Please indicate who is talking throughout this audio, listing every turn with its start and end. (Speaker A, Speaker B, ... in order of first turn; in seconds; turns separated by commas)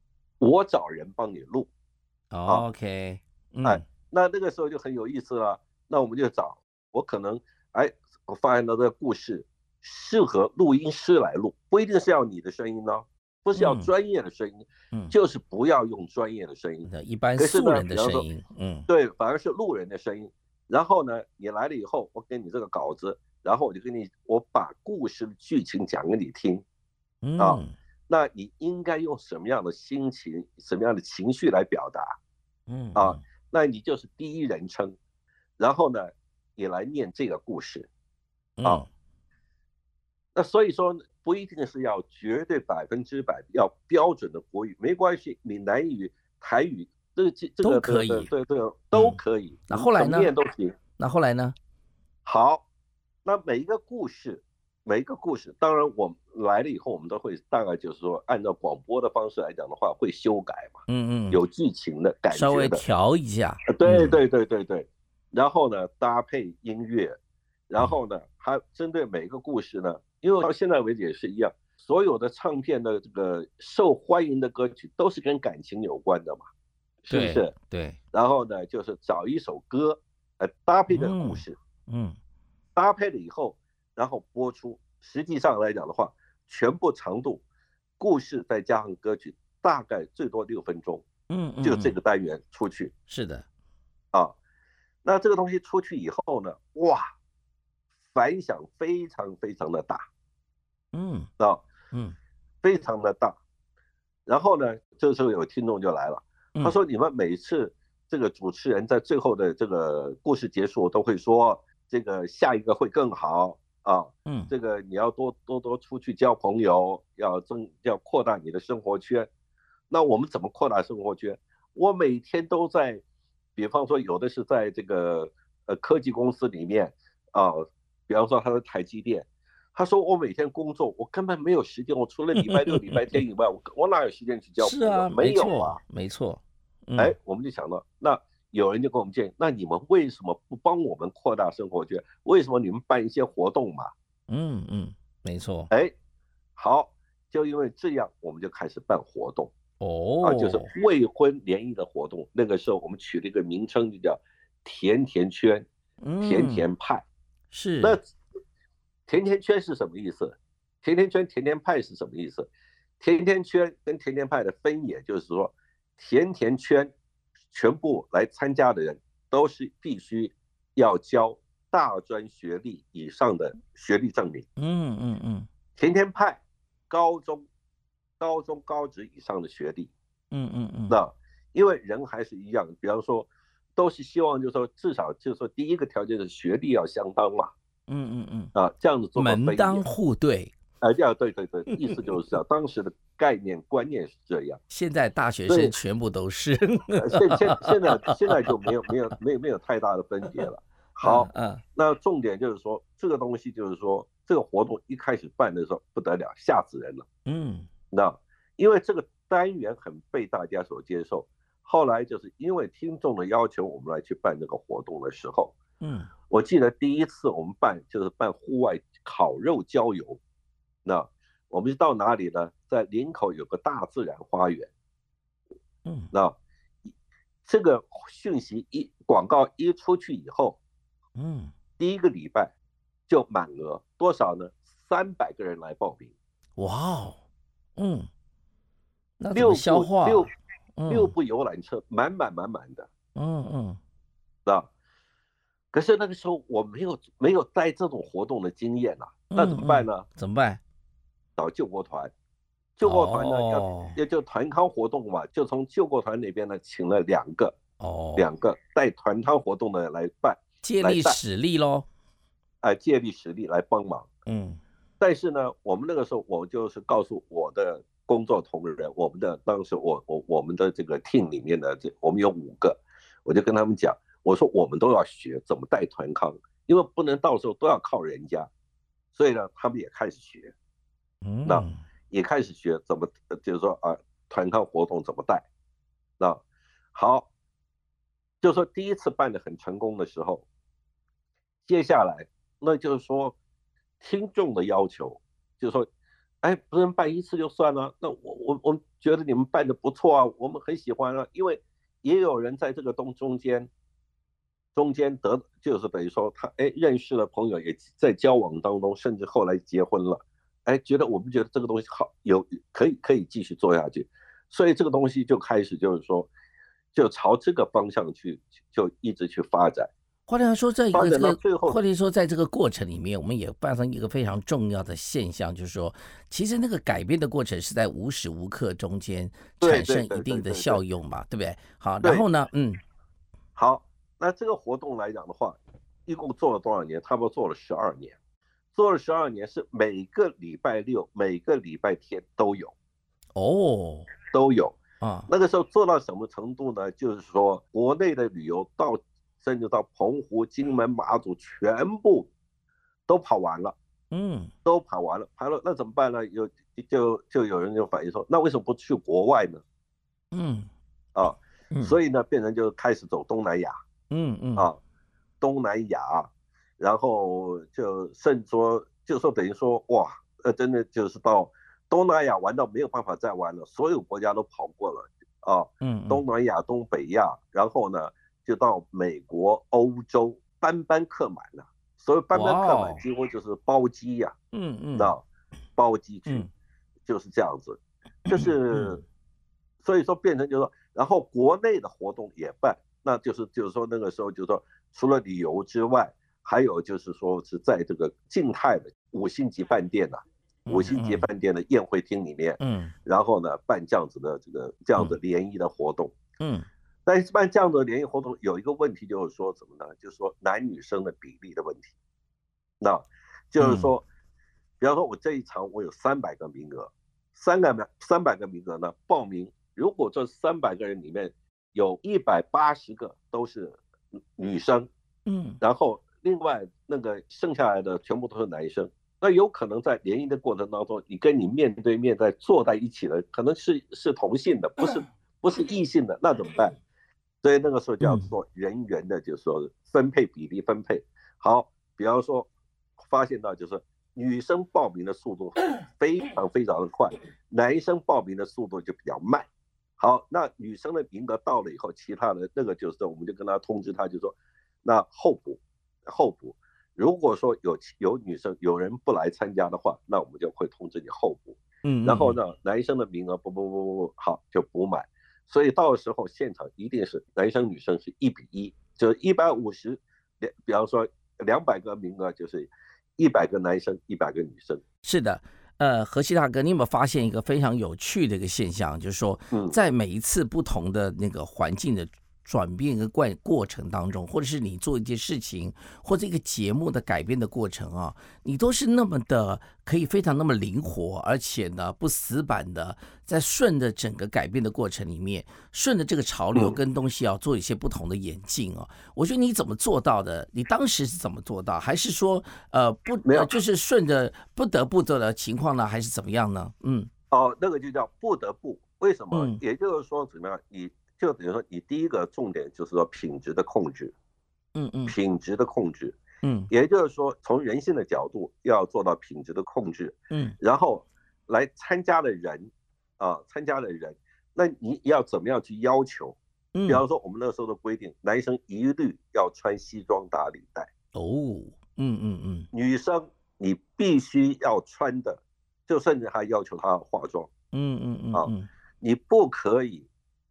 Speaker A: 0.4-1.7, Speaker B: 2.3-3.8, Speaker A: 3.6-18.3, Speaker B: 13.6-13.9, Speaker B: 16.9-18.9, Speaker A: 18.9-26.6, Speaker B: 27.2-27.7, Speaker A: 27.4-32.2, Speaker B: 32.7-33.2, Speaker A: 32.9-35.0, Speaker A: 35.6-37.9, Speaker B: 38.6-38.9, Speaker A: 40.3-50.8, Speaker B: 47.6-48.3, Speaker B: 48.9-50.3, Speaker B: 51.0-51.5, Speaker A: 52.2-52.6, Speaker A: 53.2-60.8, Speaker B: 60.9-61.4, Speaker A: 61.3-62.8, Speaker B: 62.3-64.2, Speaker A: 63.7-67.2, Speaker A: 67.7-76.4, Speaker A: 77.0-77.5, Speaker B: 77.1-78.0, Speaker A: 78.1-81.6, Speaker B: 80.9-82.2, Speaker A: 82.8-87.4, Speaker A: 88.0-91.0, Speaker B: 91.3-92.0, Speaker A: 91.6-92.9, Speaker B: 93.1-93.4, Speaker A: 95.0-97.0, Speaker A: 98.1-100.0, Speaker B: 100.9-101.3, Speaker A: 102.6-103.4, Speaker A: 104.2-119.3, Speaker A: 119.9-123.0, Speaker A: 123.5-135.8, Speaker B: 132.3-133.2, Speaker B: 134.6-137.1, Speaker A: 137.0-143.9, Speaker B: 144.3-145.7, Speaker A: 146.6-149.5, Speaker B: 149.8-150.7, Speaker A: 150.2-155.7, Speaker B: 156.0-156.7, Speaker A: 156.2-157.0, Speaker B: 157.5-158.0, Speaker A: 159.1-166.9, Speaker A: 167.5-174.4, Speaker B: 174.6-175.5, Speaker A: 175.8-177.5, Speaker A: 178.2-179.9, Speaker B: 180.3-181.0, Speaker A: 180.9-187.5, Speaker B: 187.9-188.5, Speaker A: 188.5-189.8, Speaker B: 189.2-190.5, Speaker A: 190.8-194.6, Speaker B: 191.9-192.1, Speaker B: 194.7-197.9, Speaker A: 195.5-195.7, Speaker A: 197.0-207.1, Speaker B: 201.0-201.6, Speaker B: 207.2-207.7, Speaker A: 207.9-215.6, Speaker B: 215.8-216.1, Speaker A: 216.3-220.2, Speaker A: 220.8-224.7, Speaker B: 225.8-226.1, Speaker A: 227.4-230.6, Speaker B: 231.2-231.5, Speaker A: 231.8-232.5, Speaker A: 233.1-236.1, Speaker B: 236.6-237.2, Speaker B: 237.8-238.1, Speaker B: 239.2-241.1, Speaker A: 239.3-240.3, Speaker A: 240.9-242.9, Speaker B: 243.1-243.8, Speaker A: 245.7-250.0, Speaker B: 249.3-250.6, Speaker A: 251.4-252.1, Speaker A: 252.8-257.6, Speaker B: 252.8-254.0, Speaker B: 257.8-258.3, Speaker A: 258.2-261.2, Speaker B: 260.6-261.9, Speaker A: 262.6-264.1, Speaker B: 264.2-264.6, Speaker A: 265.0-278.5, Speaker A: 279.1-280.5, Speaker B: 281.2-281.8, Speaker A: 281.4-285.5, Speaker A: 286.9-287.3, Speaker A: 288.4-290.4, Speaker A: 291.6-293.4, Speaker A: 294.0-295.9, Speaker A: 296.4-303.7, Speaker A: 304.7-316.3, Speaker A: 316.9-319.9, Speaker B: 320.3-332.8, Speaker A: 320.9-321.8, Speaker A: 329.6-330.8, Speaker A: 333.5-338.2, Speaker A: 338.7-342.7, Speaker B: 343.3-344.1, Speaker A: 344.3-344.8, Speaker B: 345.0-345.3, Speaker A: 345.3-352.3, Speaker A: 353.1-353.7, Speaker B: 354.1-354.5, Speaker A: 354.6-359.6, Speaker B: 360.3-360.7, Speaker A: 361.1-363.8, Speaker B: 361.7-362.0, Speaker B: 364.1-364.7, Speaker A: 365.4-384.3, Speaker B: 375.8-376.2, Speaker B: 382.3-383.0, Speaker B: 384.5-385.1, Speaker A: 384.9-385.2, Speaker A: 385.8-386.5, Speaker A: 387.1-389.0, Speaker B: 388.3-389.0, Speaker A: 389.8-406.1, Speaker B: 400.6-401.3, Speaker B: 402.6-402.9, Speaker B: 406.4-406.7, Speaker A: 407.1-411.9, Speaker A: 412.8-414.0, Speaker B: 413.6-413.9, Speaker A: 414.8-423.8, Speaker A: 424.4-424.9, Speaker B: 425.2-425.6, Speaker A: 425.6-436.8, Speaker A: 437.4-442.5, Speaker B: 438.0-438.3, Speaker A: 443.0-449.5, Speaker A: 450.0-474.8, Speaker B: 461.8-462.4, Speaker B: 475.0-507.1, Speaker A: 479.5-479.8, Speaker A: 496.5-496.8, Speaker A: 503.2-503.5, Speaker A: 507.3-514.1, Speaker B: 509.3-509.6, Speaker B: 514.7-515.1, Speaker A: 515.1-516.2, Speaker B: 516.4-516.7, Speaker A: 516.7-526.4, Speaker B: 526.7-527.0, Speaker A: 526.9-530.9, Speaker B: 531.1-532.7, Speaker A: 532.7-537.5, Speaker B: 537.7-538.7, Speaker A: 538.3-540.1